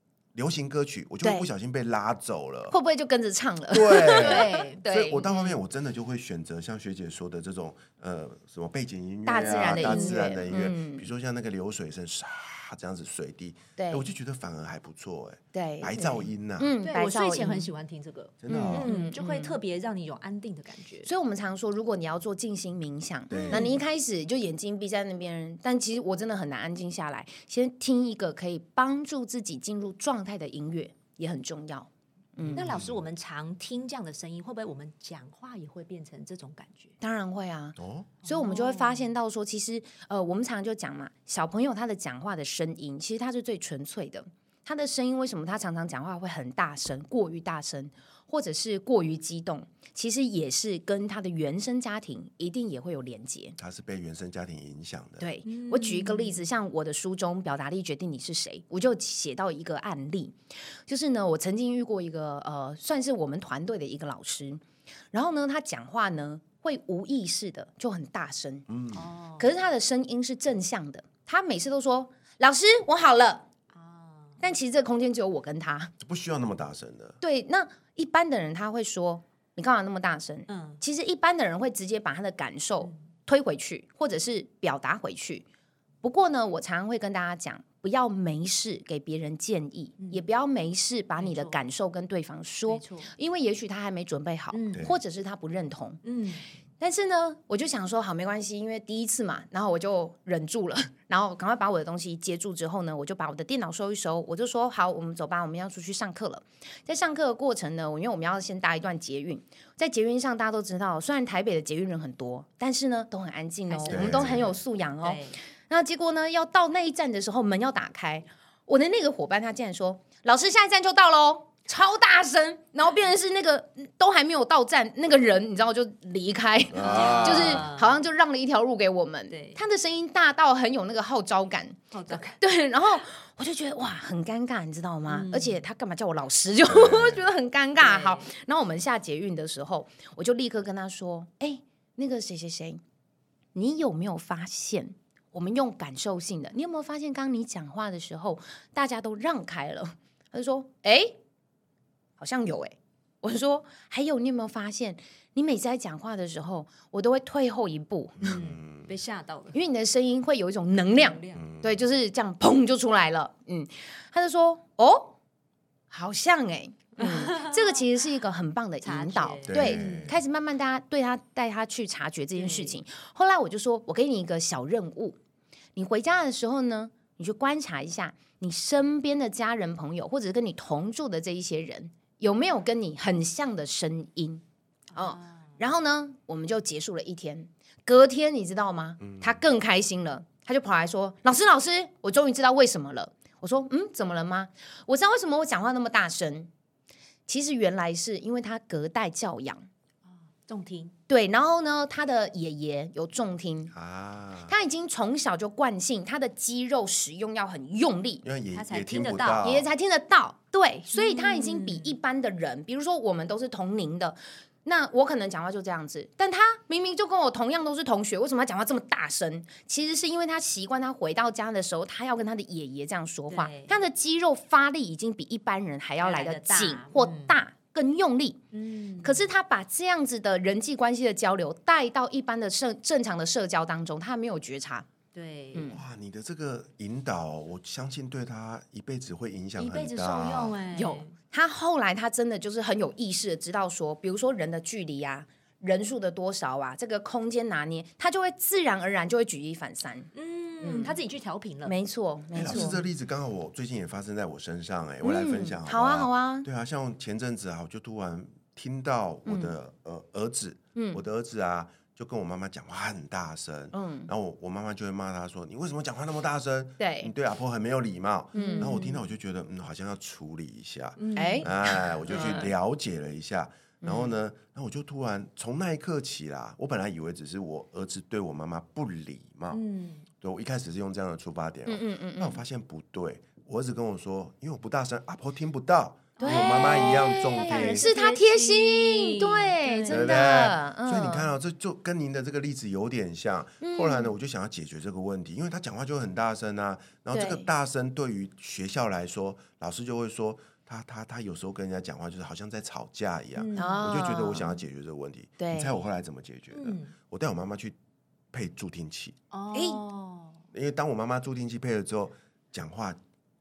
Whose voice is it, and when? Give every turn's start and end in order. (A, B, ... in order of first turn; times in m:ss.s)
0:00.3-0:02.8 A
0:01.2-0:01.5 B
0:02.7-0:05.3 B
0:03.7-0:16.7 A
0:04.0-0:05.6 C
0:09.3-0:11.1 B
0:09.6-0:10.2 C
0:13.8-0:14.1 B
0:15.5-0:17.7 B
0:16.8-0:21.1 C
0:18.4-0:18.9 A
0:18.5-0:19.6 B
0:21.0-0:32.8 B
0:23.3-0:23.8 A
0:23.3-0:23.8 C
0:32.4-0:33.0 A
0:32.5-0:37.0 C
0:37.0-0:53.6 B
0:37.8-0:38.1 A
0:38.2-0:39.1 C
0:53.6-0:55.3 A
0:55.2-1:00.4 B
0:55.4-0:56.5 C
1:00.9-1:08.7 B
1:08.7-1:09.1 A
1:08.9-1:09.5 C
1:09.4-1:13.5 B
1:13.7-1:14.4 C
1:14.4-1:15.9 B
1:16.0-1:17.2 A
1:17.2-1:25.4 B
1:20.5-1:20.8 C
1:26.0-1:36.0 B
1:30.0-1:30.2 C
1:31.2-1:31.6 C
1:32.7-1:33.1 C
1:34.5-1:34.9 C
1:36.0-1:36.4 C
1:36.8-2:22.8 B
1:53.7-1:54.5 C
1:53.9-1:54.5 A
1:55.0-1:55.4 C
2:06.7-2:07.7 A
2:06.8-2:08.0 C
2:09.3-2:09.6 C
2:11.9-2:12.4 C
2:15.1-2:15.6 C
2:16.7-2:17.2 A
2:17.8-2:18.3 C
2:23.6-2:31.2 B
2:32.2-2:38.3 B
2:38.2-2:38.9 A
2:38.2-2:39.6 C
2:39.5-2:45.2 B
2:40.9-2:41.5 C
2:41.3-2:41.9 A
2:45.9-2:55.2 B
2:47.0-2:47.8 C
2:48.8-2:50.1 C
2:49.5-2:50.2 A
2:52.4-2:52.8 C
2:55.8-3:04.4 B
3:04.9-3:16.5 B
3:05.0-3:05.5 C
3:09.0-3:09.4 A
3:17.3-3:19.7 B
3:20.1-3:21.0 C
3:21.1-3:23.7 B
3:23.7-3:24.6 A
3:24.5-3:28.2 B
3:28.2-3:29.7 A
3:28.5-3:29.5 C
3:29.4-3:48.4 B
3:30.9-3:32.0 C
3:43.3-3:43.8 C
3:46.0-3:47.4 C
3:48.5-3:49.3 C
3:49.0-3:54.9 B
3:55.1-3:55.8 C
3:55.5-3:55.8 B
3:55.7-4:00.6 A
3:59.6-4:01.1 C
4:00.7-4:10.1 B
4:10.1-4:11.8 C
4:10.6-4:11.0 B
4:11.6-4:12.8 B
4:12.3-4:39.6 A
4:15.0-4:16.5 B
4:19.3-4:19.6 B
4:20.8-4:21.0 B
4:23.7-4:24.1 B
4:26.8-4:27.1 B
4:28.4-4:28.7 B
4:28.4-4:29.0 C
4:31.0-4:31.6 C
4:31.2-4:32.5 B
4:32.1-4:32.4 C
4:33.8-4:34.1 B
4:39.5-4:40.1 C
4:40.2-4:47.9 A
4:41.7-4:42.4 B
4:46.2-4:50.3 C
4:46.2-4:51.3 B
4:49.9-5:07.8 A
4:53.6-4:54.2 B
4:57.1-4:57.5 B
5:03.4-5:04.0 C
5:03.6-5:04.6 B
5:05.4-5:05.8 B
5:06.5-5:06.9 C
5:08.3-5:09.2 A
5:09.3-5:10.4 C
5:09.5-5:09.8 B
5:10.5-5:13.0 A